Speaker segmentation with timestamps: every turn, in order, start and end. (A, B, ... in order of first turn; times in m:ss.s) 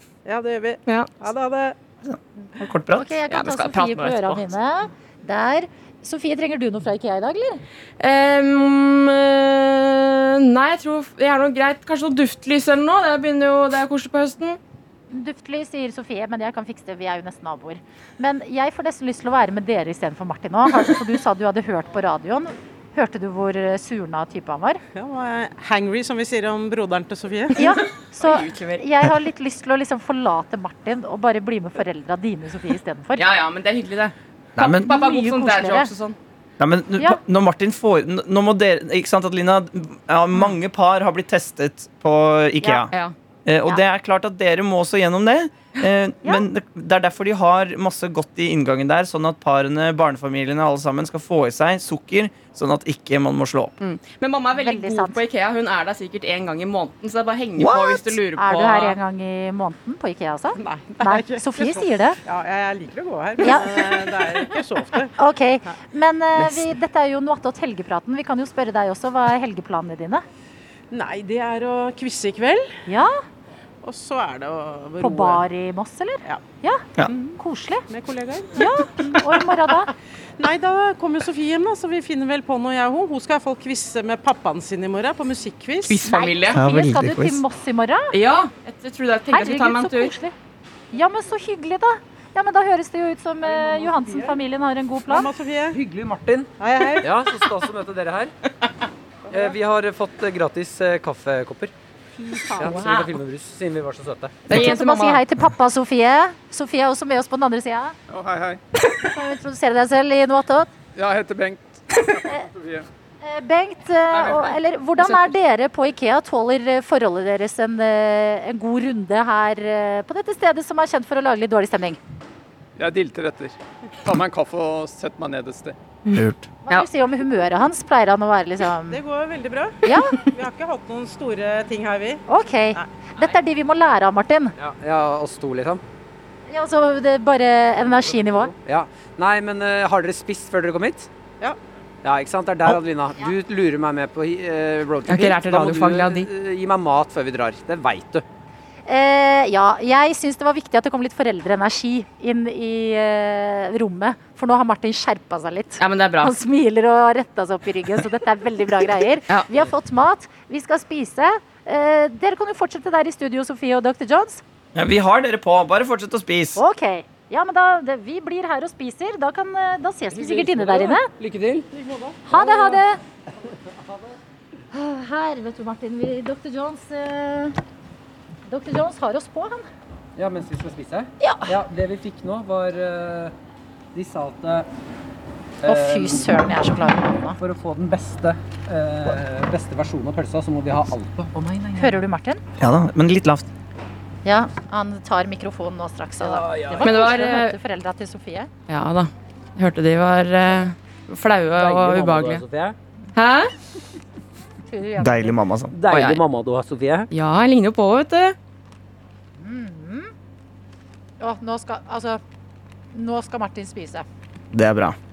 0:00.2-0:01.8 A
0:02.0-0:03.2 B
0:02.9-0:07.6 C
0:03.3-0:04.4 D
0:08.0-0:14.6 D
0:15.1-0:24.8 C
0:25.0-0:27.6 A
0:27.6-0:33.3 C
0:27.6-0:28.8 D
0:33.2-0:34.1 D
0:34.6-0:34.9 B
0:34.6-0:35.9 C
0:34.7-0:36.2 D
0:36.6-0:42.9 B
0:42.6-0:42.9 C
0:43.5-0:53.7 B
0:53.8-0:59.0 D
0:54.5-0:55.2 C
0:57.6-0:58.2 B
0:58.4-1:02.2 C
1:00.6-1:05.1 A
1:03.4-1:03.8 C
1:05.2-1:10.2 C
1:10.9-1:12.7 A
1:12.9-1:13.1 C
1:13.8-1:15.4 A
1:15.0-1:17.9 C
1:17.1-1:19.4 A
1:18.5-1:19.9 C
1:20.4-1:26.1 A
1:25.9-1:26.6 D
1:26.0-1:28.1 C
1:26.5-1:27.4 B
1:28.1-1:30.1 D
1:29.3-1:30.3 C
1:30.9-1:35.3 C
1:33.6-1:34.3 E
1:35.1-1:35.8 A
1:35.7-1:38.3 E
1:36.6-1:37.2 A
1:39.3-1:41.7 E
1:42.2-1:42.9 C
1:42.6-1:44.5 E
1:42.6-1:43.1 D
1:44.5-1:48.0 C
1:44.5-1:45.2 D
1:48.1-1:48.5 B
1:48.8-1:50.7 C
1:51.0-1:51.5 B
1:51.1-1:51.6 F
1:52.1-1:52.5 C
1:53.2-2:02.0 C
2:02.8-2:03.5 F
2:04.1-2:05.6 F
2:06.1-2:06.9 D
2:06.1-2:06.5 B
2:06.6-2:09.0 C
2:08.9-2:12.2 A
2:09.8-2:10.2 C
2:12.3-2:14.6 C
2:14.6-2:15.8 E
2:16.5-2:18.5 C
2:18.5-2:21.1 E
2:22.0-2:28.2 E
2:25.1-2:26.3 D
2:28.9-2:44.4 C
2:35.8-2:36.3 D
2:44.8-2:46.6 B
2:46.6-2:51.1 C
2:50.1-2:52.5 E
2:51.8-2:52.8 A
2:52.2-2:53.0 C
2:54.7-2:57.6 C
2:58.5-2:59.6 C
3:00.2-3:03.3 E
3:01.2-3:01.6 C
3:03.9-3:04.7 E
3:05.6-3:06.4 E
3:05.7-3:07.4 C
3:07.4-3:12.0 E
3:11.8-3:12.4 C
3:12.6-3:13.5 B
3:14.2-3:18.5 C
3:16.2-3:17.3 E
3:16.8-3:17.6 D
3:18.7-3:22.4 D
3:21.6-3:22.8 E
3:23.2-3:23.5 D
3:24.6-3:25.4 C
3:25.0-3:25.8 B
3:25.7-3:27.1 E
3:25.9-3:26.2 D
3:27.1-3:28.4 D
3:29.4-3:30.1 C
3:31.2-3:32.2 C
3:32.9-3:34.1 C
3:34.5-3:35.0 B